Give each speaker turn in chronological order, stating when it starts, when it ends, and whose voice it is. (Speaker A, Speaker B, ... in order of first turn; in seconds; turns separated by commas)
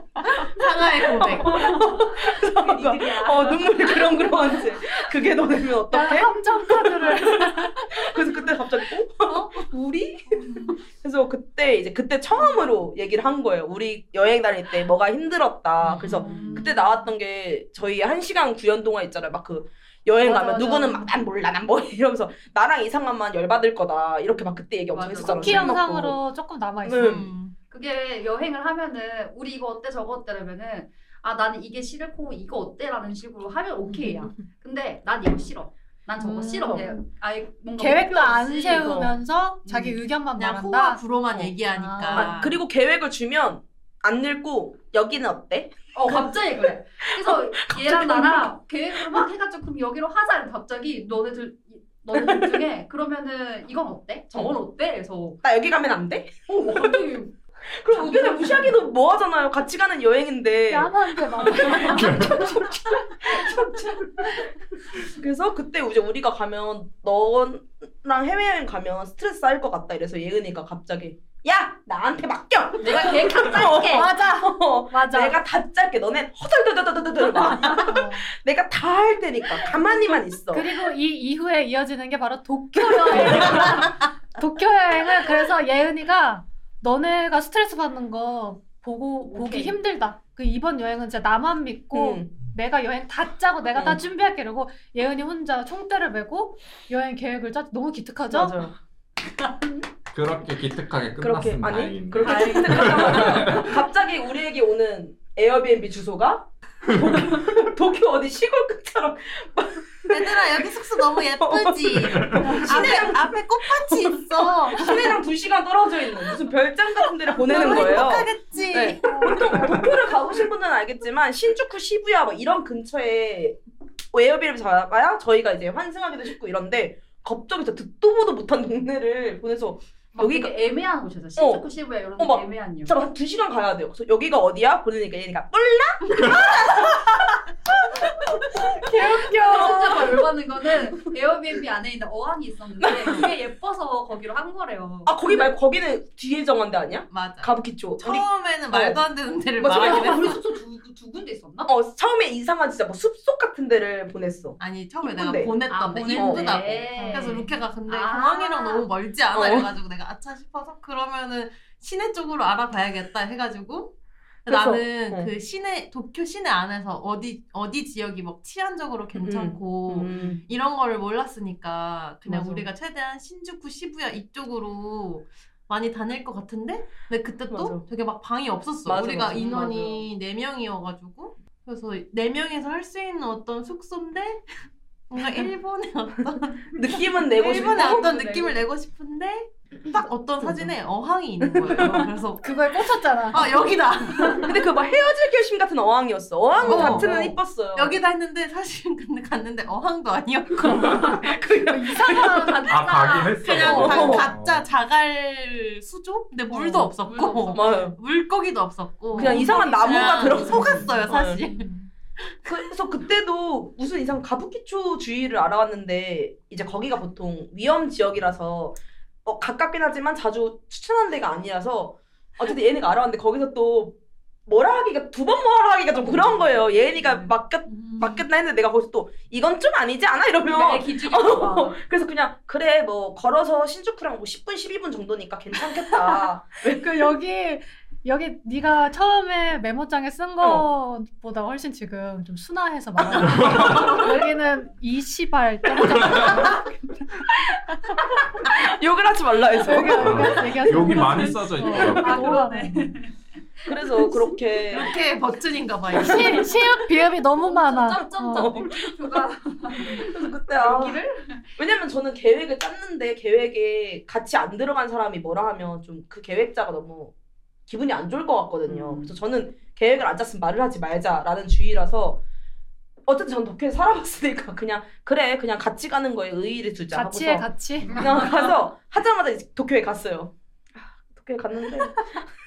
Speaker A: 0.3-1.6, Speaker B: 1.1-9.7, Speaker C: 1.5-5.2, Speaker D: 5.9-8.0, Speaker C: 10.3-10.8, Speaker B: 11.0-26.2, Speaker A: 15.8-16.5, Speaker C: 16.0-17.0, Speaker D: 16.2-16.5, Speaker D: 20.2-21.1, Speaker C: 24.9-25.7, Speaker D: 25.2-27.2, Speaker B: 26.9-27.3, Speaker A: 27.0-27.6, Speaker C: 27.7-39.0, Speaker B: 33.9-34.3, Speaker D: 36.2-37.0, Speaker D: 37.8-42.3, Speaker B: 38.7-39.1, Speaker C: 39.6-40.0, Speaker A: 40.4-42.6, Speaker B: 42.1-46.3, Speaker C: 45.9-55.4, Speaker B: 47.2-48.5, Speaker B: 52.1-52.6, Speaker B: 55.4-57.0, Speaker C: 56.5-57.4, Speaker B: 57.7-64.4, Speaker C: 57.9-58.7, Speaker D: 60.7-62.5, Speaker C: 61.5-62.6, Speaker B: 65.1-80.7, Speaker C: 72.8-74.1, Speaker D: 73.9-75.4, Speaker C: 77.5-77.9, Speaker D: 77.8-78.3, Speaker D: 80.5-98.6, Speaker B: 83.1-83.6, Speaker C: 89.2-89.8, Speaker B: 91.9-92.3, Speaker B: 93.7-94.0, Speaker B: 98.3-98.8, Speaker E: 100.1-103.7, Speaker B: 101.2-110.6, Speaker C: 102.2-103.7, Speaker A: 110.1-115.1, Speaker B: 111.4-123.6, Speaker E: 112.2-112.6, Speaker D: 112.4-112.7, Speaker A: 117.3-119.9, Speaker D: 117.5-118.1, Speaker D: 118.8-119.8, Speaker B: 124.1-130.5, Speaker C: 130.1-133.0, Speaker B: 131.4-131.7, Speaker B: 132.2-137.4, Speaker D: 138.8-140.1, Speaker C: 139.3-145.5, Speaker B: 139.5-140.1, Speaker B: 142.8-143.3, Speaker B: 145.1-149.0, Speaker A: 147.1-150.4, Speaker B: 149.6-150.4, Speaker C: 149.7-151.7, Speaker B: 151.7-155.6, Speaker A: 154.6-184.4, Speaker C: 155.7-158.9, Speaker B: 156.1-156.7, Speaker D: 156.9-157.5, Speaker B: 159.3-159.7, Speaker B: 164.5-165.3, Speaker B: 169.2-170.4, Speaker B: 172.3-172.7, Speaker B: 177.5-177.8, Speaker B: 178.9-180.0, Speaker A: 185.1-194.6, Speaker B: 186.7-188.3, Speaker C: 187.6-188.6, Speaker B: 190.4-190.7, Speaker B: 191.4-192.1, Speaker D: 192.4-193.6, Speaker B: 194.5-198.0, Speaker A: 196.6-201.3, Speaker D: 196.6-197.3, Speaker B: 200.8-202.6, Speaker D: 201.7-202.8, Speaker C: 202.1-203.6, Speaker E: 202.7-204.7, Speaker A: 203.4-212.7, Speaker D: 203.6-204.2, Speaker B: 203.6-204.3, Speaker D: 206.5-206.9, Speaker C: 206.8-207.8, Speaker B: 207.5-208.0, Speaker B: 209.1-211.4, Speaker C: 209.2-210.9, Speaker D: 209.3-209.6, Speaker D: 211.4-211.9, Speaker B: 212.5-237.1, Speaker C: 226.9-227.3, Speaker C: 230.5-231.8, Speaker D: 236.7-246.8, Speaker B: 240.4-240.7, Speaker E: 243.2-244.0, Speaker B: 243.3-244.1, Speaker E: 245.9-246.5, Speaker B: 246.0-246.3, Speaker B: 248.4-251.0, Speaker D: 249.6-252.9, Speaker E: 249.8-252.5, Speaker C: 251.0-254.3, Speaker B: 253.7-254.9, Speaker A: 254.7-256.6, Speaker D: 255.9-258.5, Speaker C: 257.2-261.6, Speaker B: 258.3-259.2, Speaker B: 259.8-261.0, Speaker B: 261.6-267.1, Speaker B: 267.7-272.2, Speaker C: 268.6-269.1, Speaker B: 273.1-282.1, Speaker D: 276.9-277.9, Speaker C: 277.8-278.6